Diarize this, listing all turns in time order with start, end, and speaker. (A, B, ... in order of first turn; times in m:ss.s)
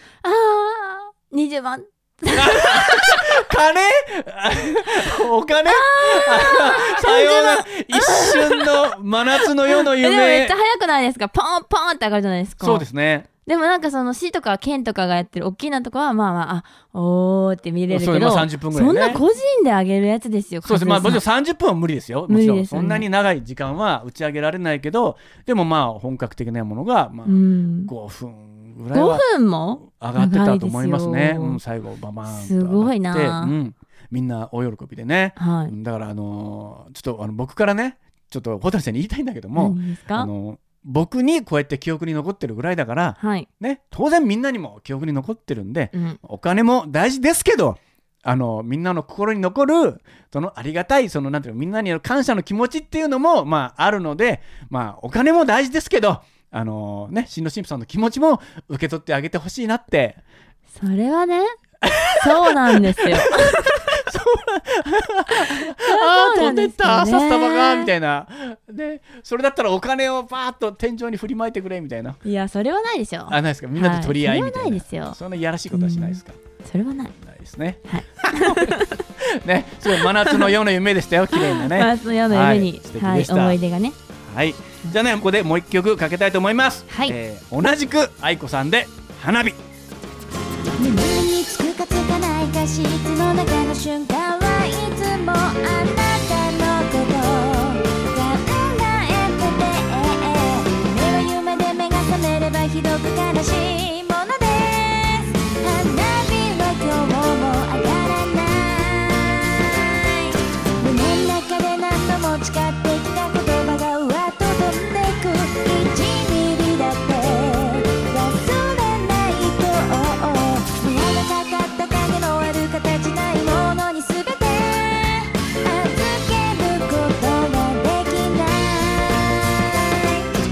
0:00.2-0:03.4 A
0:02.3-0:10.5 B
0:05.7-0:12.8 A
0:12.6-0:13.3 B
0:13.4-0:21.2 A
0:17.9-0:19.2 B
0:20.6-0:29.2 B
0:22.3-0:23.0 A
0:27.3-0:27.9 A
0:28.9-0:31.6 A
0:29.8-1:00.2 B
0:32.3-0:33.5 A
0:35.4-0:35.7 A
0:39.6-0:40.3 A
0:43.2-0:43.5 A
0:45.9-0:46.2 A
1:00.8-1:01.6 A
1:01.8-1:12.2 B
1:02.2-1:04.0 A
1:05.3-1:07.9 A
1:12.2-1:15.2 A
1:13.3-1:16.4 B
1:15.7-1:17.1 A
1:17.2-1:23.6 B
1:17.9-1:19.0 A
1:19.9-1:20.5 A
1:21.3-1:24.0 A
1:24.2-1:29.6 B
1:26.9-1:27.1 A
1:30.8-1:50.3 C
1:50.8-2:10.2 C